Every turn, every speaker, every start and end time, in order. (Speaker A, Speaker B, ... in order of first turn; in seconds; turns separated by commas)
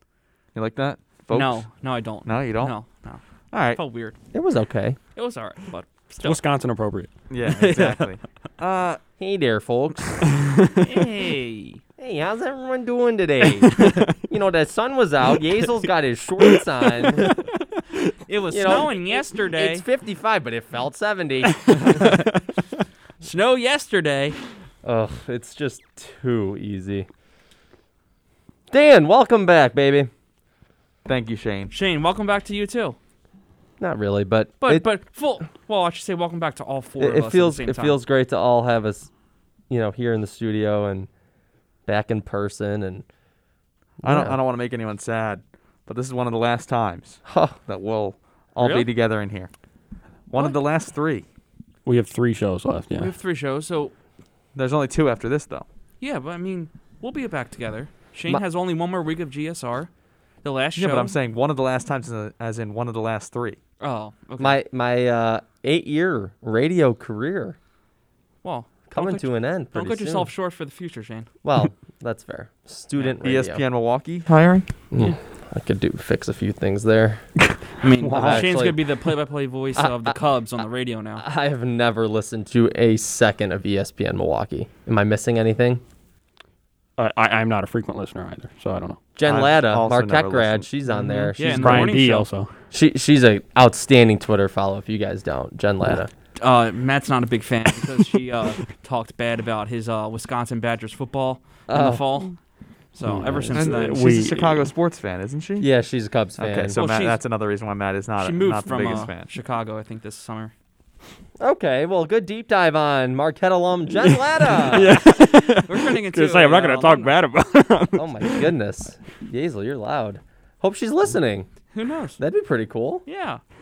Speaker A: 0.6-1.7, Speaker B: 1.3-4.2, Speaker A: 2.2-2.8, Speaker A: 3.5-3.8, Speaker C: 4.3-5.0, Speaker B: 5.2-6.4, Speaker D: 6.2-7.1, Speaker A: 7.3-9.0, Speaker B: 7.5-8.1, Speaker C: 9.2-10.2, Speaker B: 10.8-11.8, Speaker C: 12.0-17.4, Speaker D: 13.9-14.1, Speaker B: 18.3-19.9, Speaker C: 18.5-21.9, Speaker B: 21.8-22.4, Speaker B: 23.2-24.4, Speaker C: 24.8-27.1, Speaker C: 28.7-30.1, Speaker A: 31.1-31.7, Speaker B: 31.7-33.0, Speaker C: 33.8-34.9, Speaker B: 34.6-38.0, Speaker C: 37.0-39.1, Speaker C: 39.7-41.1, Speaker C: 41.9-43.0, Speaker C: 44.0-44.4, Speaker A: 44.0-49.5, Speaker C: 47.2-47.6, Speaker B: 48.6-48.9, Speaker A: 50.3-51.2, Speaker D: 51.9-53.1, Speaker B: 53.0-53.9, Speaker A: 54.5-55.7, Speaker B: 56.0-59.9, Speaker B: 60.4-61.1, Speaker A: 60.8-63.6, Speaker B: 63.8-64.6, Speaker C: 64.4-67.6, Speaker B: 68.4-71.3, Speaker C: 68.9-70.3, Speaker C: 71.4-73.6, Speaker A: 73.2-74.7, Speaker C: 74.9-77.2, Speaker B: 77.8-81.2, Speaker C: 78.0-78.8, Speaker D: 78.2-78.5, Speaker C: 79.8-80.2, Speaker C: 81.2-85.8, Speaker D: 87.0-89.0, Speaker C: 89.2-92.0, Speaker A: 89.3-90.7, Speaker B: 91.0-92.3, Speaker D: 91.4-92.5, Speaker C: 92.7-96.1, Speaker B: 96.4-102.4, Speaker C: 101.7-102.0, Speaker B: 102.9-104.1, Speaker D: 103.1-104.6, Speaker A: 103.5-105.7, Speaker C: 105.6-106.8, Speaker A: 106.4-109.3, Speaker B: 106.7-107.2, Speaker B: 108.2-110.5, Speaker C: 111.4-114.9, Speaker D: 114.6-118.5, Speaker B: 115.5-117.1, Speaker C: 118.0-121.5, Speaker B: 121.7-122.2, Speaker C: 122.2-123.0, Speaker B: 123.1-123.4